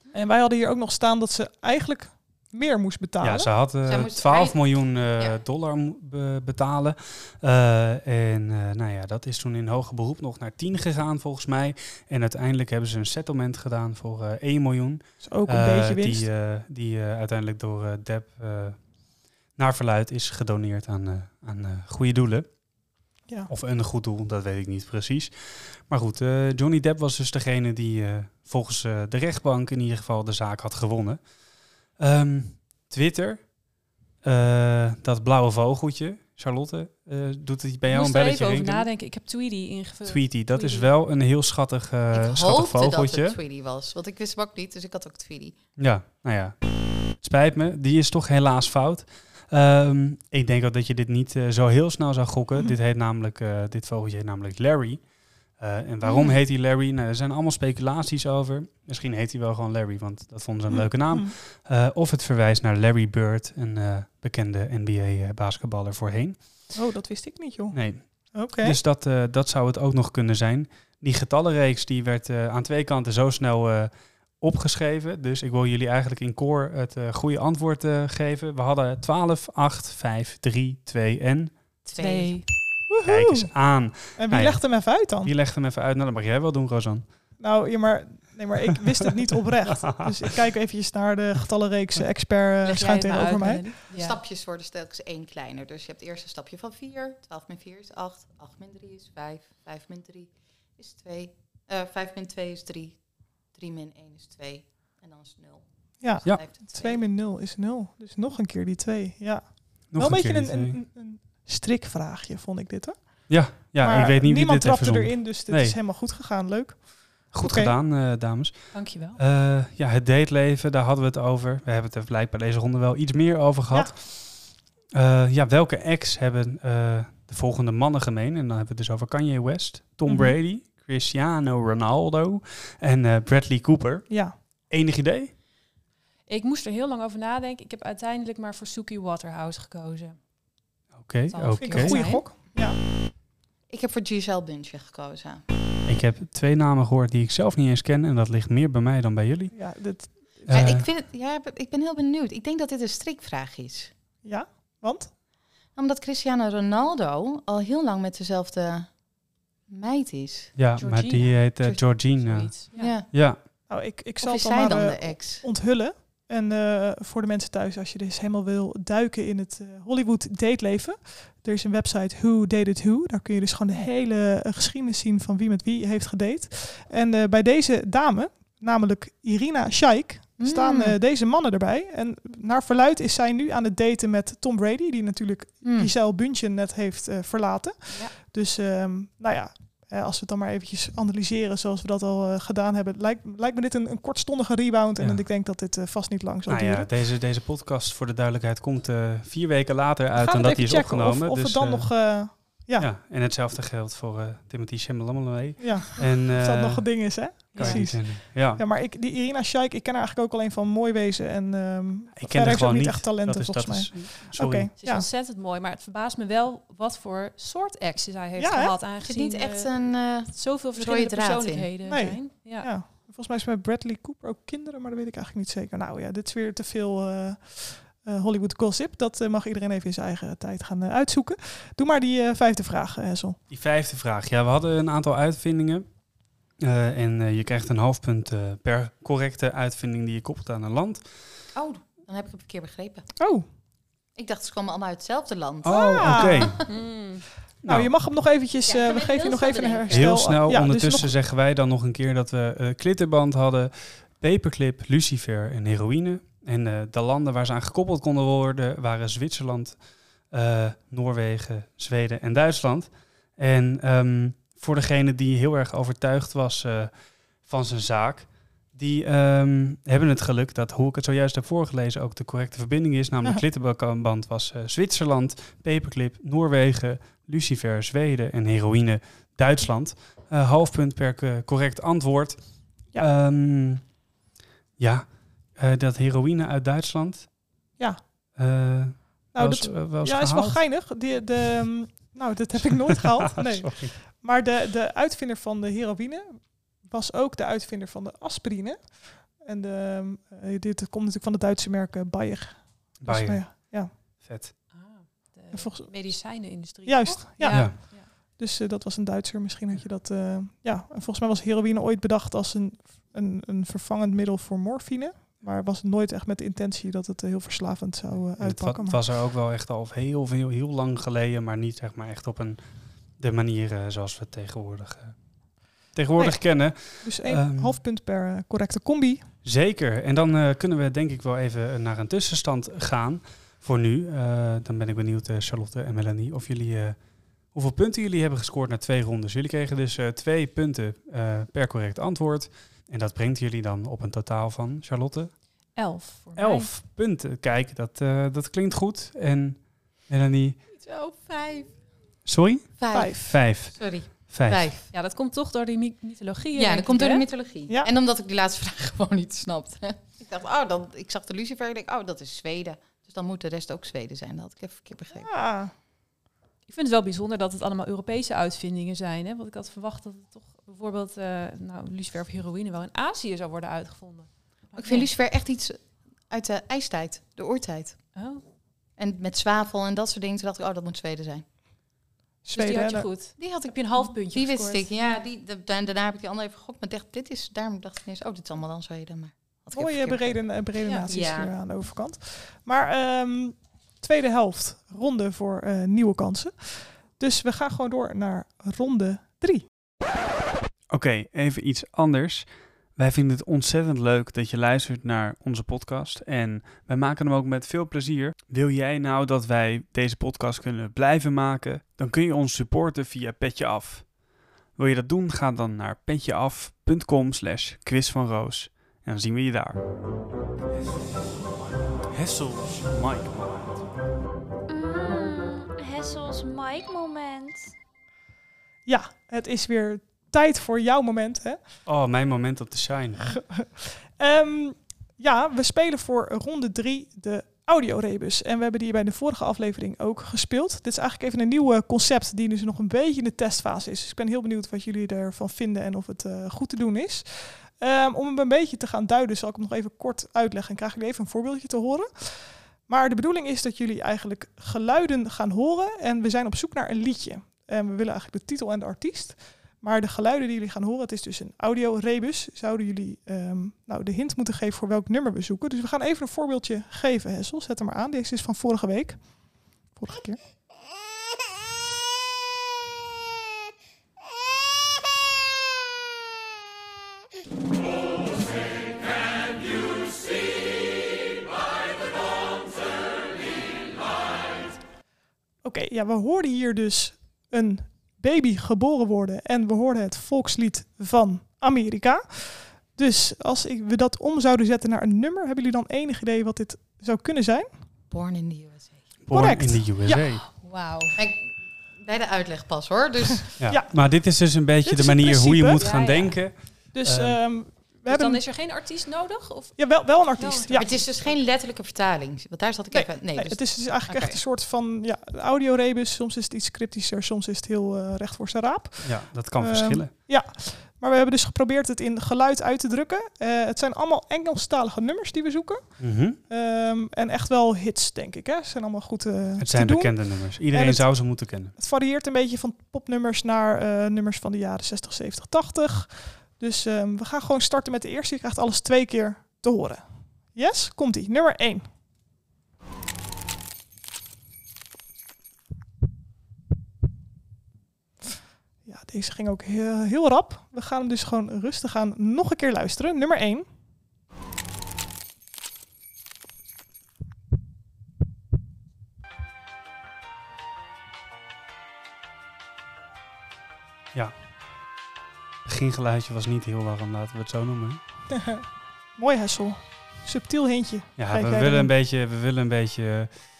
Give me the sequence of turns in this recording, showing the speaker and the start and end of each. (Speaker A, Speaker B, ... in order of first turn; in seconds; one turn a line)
Speaker A: 0.1-3.5
Speaker B: 3.2-18.8
Speaker C: 3.9-4.6
Speaker A: 15.2-16.3
Speaker B: 19.6-22.5
Speaker B: 23.5-25.3
Speaker B: 25.9-31.2
Speaker B: 32.0-33.5
Speaker B: 34.2-38.9
Speaker D: 37.9-40.9
Speaker B: 40.0-43.4
Speaker C: 42.1-45.6
Speaker B: 45.8-46.5
Speaker B: 47.2-55.0
Speaker B: 55.6-66.4
Speaker A: 60.7-61.3
Speaker A: 66.7-67.8
Speaker B: 67.7-81.5
Speaker A: 68.3-68.8
Speaker C: 81.8-82.4
Speaker D: 82.0-82.5
Speaker A: 82.9-85.3
Speaker B: 83.0-87.0
Speaker A: 87.4-93.7
Speaker D: 92.6-94.2
Speaker C: 93.9-105.6
Speaker A: 106.0-117.7
Speaker C: 106.2-107.0
Speaker B: 109.9-110.8
Speaker B: 113.3-115.8
Speaker B: 117.3-135.3
Speaker D: 118.7-119.2
Speaker A: 130.1-130.3
Speaker A: 134.1-134.3
Speaker D: 136.3-140.2
Speaker B: 141.0-142.0
Speaker D: 141.3-142.2
Speaker A: 141.6-142.8
Speaker C: 143.7-145.4
Speaker B: 145.8-149.5
Speaker A: 149.5-150.7
Speaker B: 150.5-150.9
Speaker C: 150.5-153.9
Speaker A: 154.2-155.1
Speaker C: 155.7-158.9
Speaker C: 159.7-160.6
Speaker B: 160.6-162.5
Speaker D: 160.8-161.4
Speaker D: 162.0-162.9
Speaker C: 162.7-163.1
Speaker B: 163.1-163.4
Speaker A: 163.7-196.9
Speaker C: 164.2-165.4
Speaker C: 180.4-180.9
Speaker C: 185.6-185.9
Speaker B: 195.0-195.2
Speaker B: 196.5-201.9
Speaker A: 200.1-202.9
Speaker B: 202.8-208.6
Speaker A: 205.6-215.1
Speaker D: 207.5-207.8
Speaker B: 212.1-214.7
Speaker D: 214.8-222.7
Speaker A: 218.4-218.8
Speaker C: 219.0-221.7
Speaker A: 221.8-233.4
Speaker B: 233.5-235.8
Speaker B: 236.6-241.0
Speaker C: 241.5-243.1
Speaker A: 243.2-243.4
Speaker C: 244.1-246.7
Speaker B: 245.6-246.6
Speaker A: 245.7-246.6
Speaker D: 246.7-247.2
Speaker B: 247.6-247.9
Speaker A: 247.7-251.1
Speaker C: 248.7-250.2
Speaker B: 249.9-259.8
Speaker B: 260.3-266.9
Speaker B: 267.4-282.4
Speaker B: 282.9-283.9
Speaker B: 284.8-287.3
Speaker B: 288.4-290.6
Speaker A: 289.3-303.9
Speaker B: 293.3-293.9
Speaker B: 303.0-304.5
Speaker D: 304.7-308.1
Speaker A: 305.5-319.0
Speaker B: 307.5-307.7
Speaker B: 318.4-322.6
Speaker B: 323.2-325.2
Speaker B: 325.9-327.8
Speaker A: 326.2-329.2
Speaker B: 329.4-337.0
Speaker B: 337.5-345.3
Speaker D: 345.7-346.7
Speaker B: 346.4-350.6
Speaker C: 350.7-351.7
Speaker B: 352.2-354.7
Speaker C: 352.8-354.9
Speaker A: 352.9-353.4
Speaker D: 354.9-357.3
Speaker C: 356.5-365.3
Speaker A: 365.1-365.7
Speaker D: 366.7-375.1
Speaker C: 374.8-378.0
Speaker D: 378.1-378.4
Speaker C: 379.0-381.4
Speaker A: 382.4-383.1
Speaker D: 382.5-384.9
Speaker C: 383.4-390.6
Speaker A: 389.7-399.6
Speaker D: 390.8-391.1
Speaker C: 391.1-391.5
Speaker B: 400.9-414.1
Speaker B: 414.8-419.8
Speaker B: 422.1-423.8
Speaker E: 424.7-427.7
Speaker A: 428.9-431.6
Speaker B: 431.9-433.3
Speaker A: 433.4-470.4
Speaker A: 485.6-497.7
Speaker C: 498.1-499.1
Speaker B: 499.2-500.4
Speaker A: 499.3-500.0
Speaker D: 500.1-501.2
Speaker C: 501.1-503.5
Speaker B: 503.6-507.4
Speaker A: 503.7-504.1
Speaker A: 504.8-505.8
Speaker D: 505.8-506.4
Speaker A: 506.9-508.4
Speaker D: 508.1-511.3
Speaker A: 509.8-510.9
Speaker C: 510.7-514.4
Speaker A: 512.9-541.9
Speaker B: 519.0-520.1
Speaker B: 526.0-526.4
Speaker B: 529.6-531.7
Speaker A: 548.8-553.6
Speaker B: 565.6-568.0
Speaker A: 568.3-571.9
Speaker B: 571.2-573.4